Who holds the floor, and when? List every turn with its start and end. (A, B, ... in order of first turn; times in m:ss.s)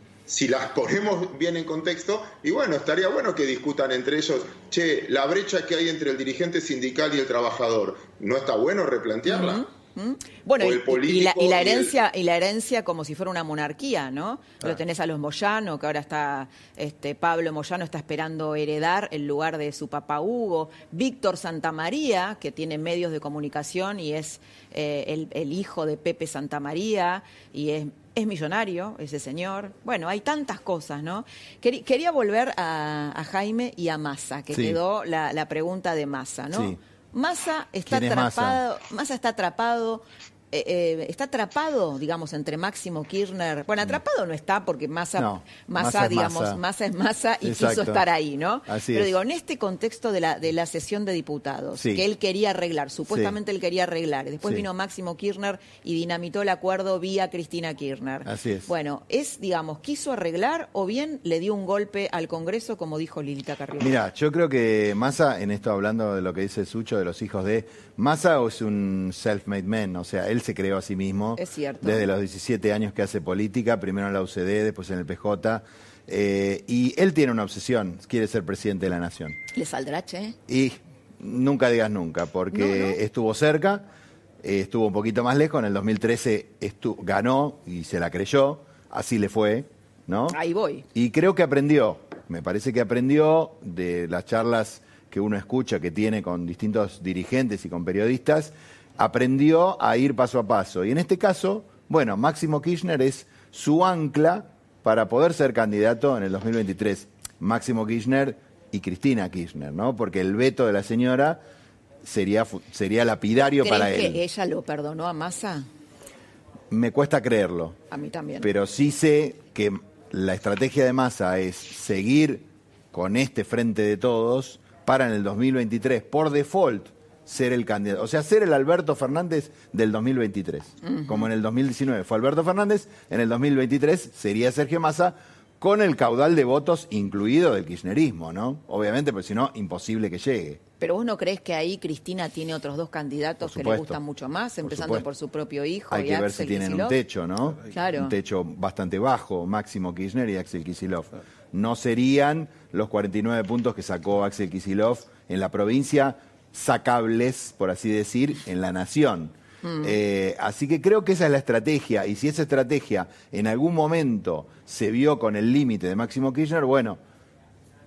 0:00.3-0:09.6 A
0:09.2-1:03.9 B
0:10.6-0:12.0 A
0:34.5-0:34.8 C
0:36.5-0:36.8 C
0:37.9-0:38.6 C
0:45.2-0:46.6 C
0:47.4-0:48.0 C
0:48.7-0:49.1 C
0:51.8-0:52.0 C
0:53.1-0:53.4 C
0:54.4-0:54.7 C
0:58.2-0:58.7 C
1:03.8-1:19.4 C
1:11.4-1:12.1 B
1:19.5-1:20.4 B
1:20.5-1:23.9 C
1:22.5-1:23.0 B
1:24.4-1:30.4 C
1:30.3-1:30.9 B
1:30.9-1:51.4 C
1:52.0-1:54.2 C
1:53.4-1:55.7 B
1:56.7-1:57.8 C
1:57.9-1:58.5 B
1:58.4-2:20.6 C
2:10.8-2:11.3 B
2:20.8-2:27.0 B
2:23.4-2:24.0 C
2:24.6-2:25.1 C
2:25.9-2:47.0 C
2:27.7-2:28.2 B
2:39.6-2:39.9 B